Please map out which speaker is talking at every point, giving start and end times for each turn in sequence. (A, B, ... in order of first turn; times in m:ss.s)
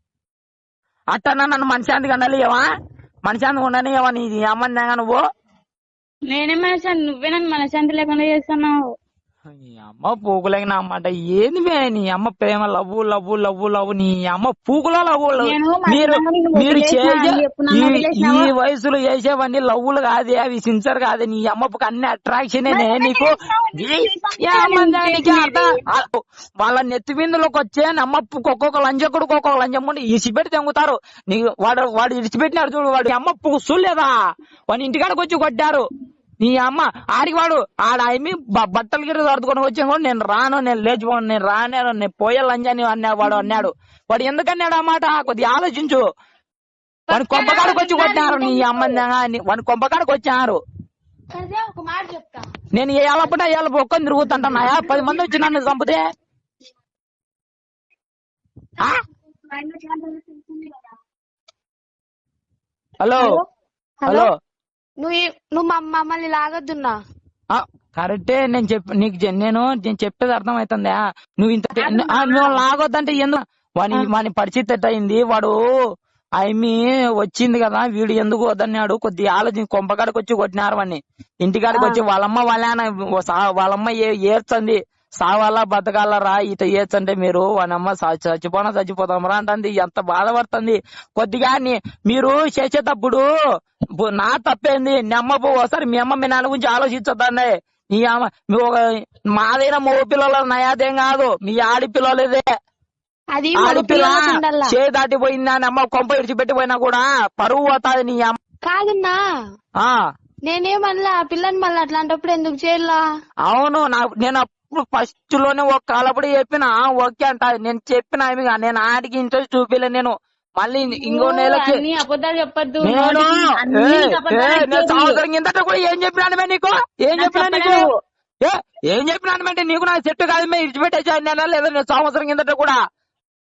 0:01.1-0:02.6 A
0:03.2-0:05.2 A
0:06.3-0:08.8 B
0:09.5-0:34.1 A
0:15.4-0:18.5 B
0:22.7-0:25.6 B
0:34.7-0:35.8 A
0:36.4-0:46.0 A
0:47.1-0:49.0 B
0:47.1-0:50.6 A
0:51.3-0:52.5 C
0:52.7-0:56.0 A
0:54.7-0:55.5 C
0:59.5-1:00.9 C
1:03.0-1:03.4 A
1:03.2-1:03.4 C
1:04.0-1:04.3 C
1:04.1-1:04.3 A
1:05.0-1:07.0 C
1:07.5-1:15.6 A
1:12.0-1:12.5 C
1:16.4-1:33.2 A
1:34.0-1:38.8 A
1:39.4-1:42.4 A
1:43.3-1:44.8 C
1:43.6-1:48.4 A
1:48.6-1:49.2 C
1:50.4-1:53.0 C
1:53.5-2:01.8 A
2:01.0-2:05.2 B
2:02.8-2:07.8 A
2:07.2-2:07.9 B
2:08.4-2:12.8 A